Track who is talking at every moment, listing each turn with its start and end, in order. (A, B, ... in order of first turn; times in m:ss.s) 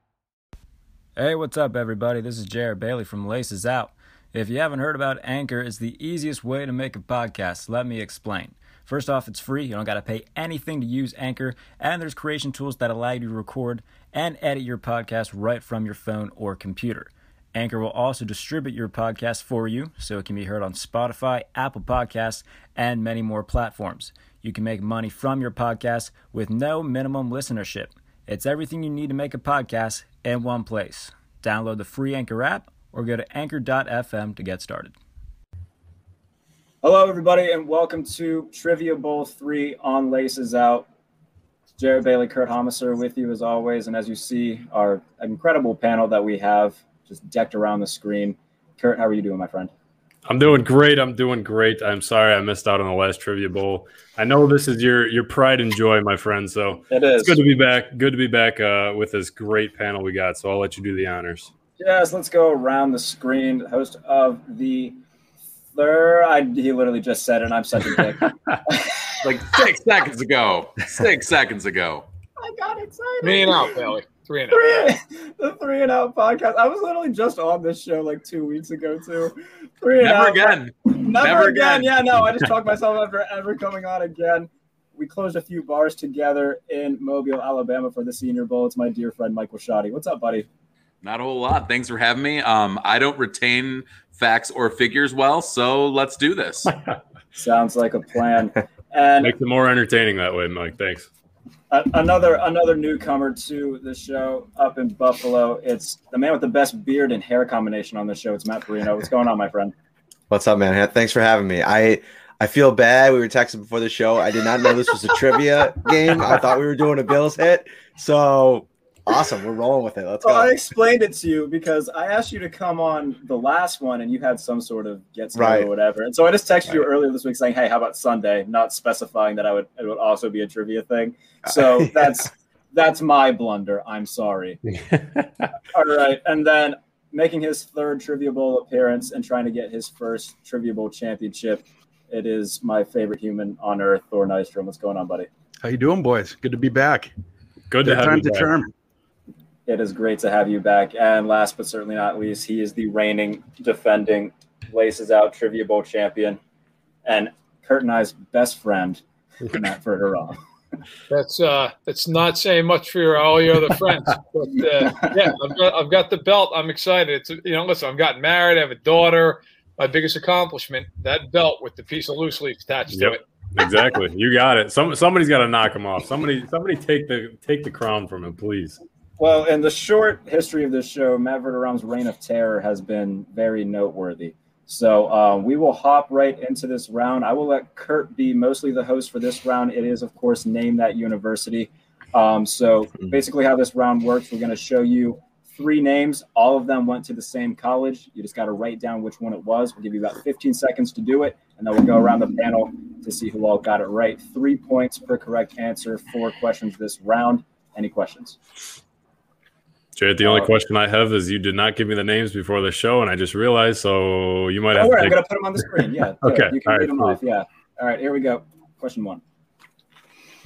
0:01.2-0:35.0 A
0:36.8-0:40.9 A
0:41.8-0:49.7 A
0:50.3-1:01.5 B
0:56.9-0:57.4 A
1:01.8-1:05.0 A
1:05.8-1:09.3 A
1:09.2-1:12.1 C
1:12.4-1:13.8 A
1:13.2-1:14.9 D
1:14.5-1:30.5 A
1:20.0-1:22.0 C
1:31.0-1:36.7 C
1:37.4-1:39.4 A
1:39.2-1:41.1 B
1:41.7-1:49.7 A
1:50.3-2:00.6 E
2:00.2-2:14.6 A
2:05.4-2:05.7 E
2:11.7-2:12.1 E
2:15.7-2:25.3 A
2:25.6-2:27.1 F
2:27.7-2:28.5 B
2:27.8-2:28.7 F
2:29.7-2:36.4 A
2:37.0-2:40.4 A
2:41.1-2:53.2 D
2:52.9-2:58.8 B
2:59.2-3:28.4 A
3:30.0-3:35.2 B
3:30.2-3:30.5 A
3:34.7-3:39.2 A
3:36.2-3:37.2 B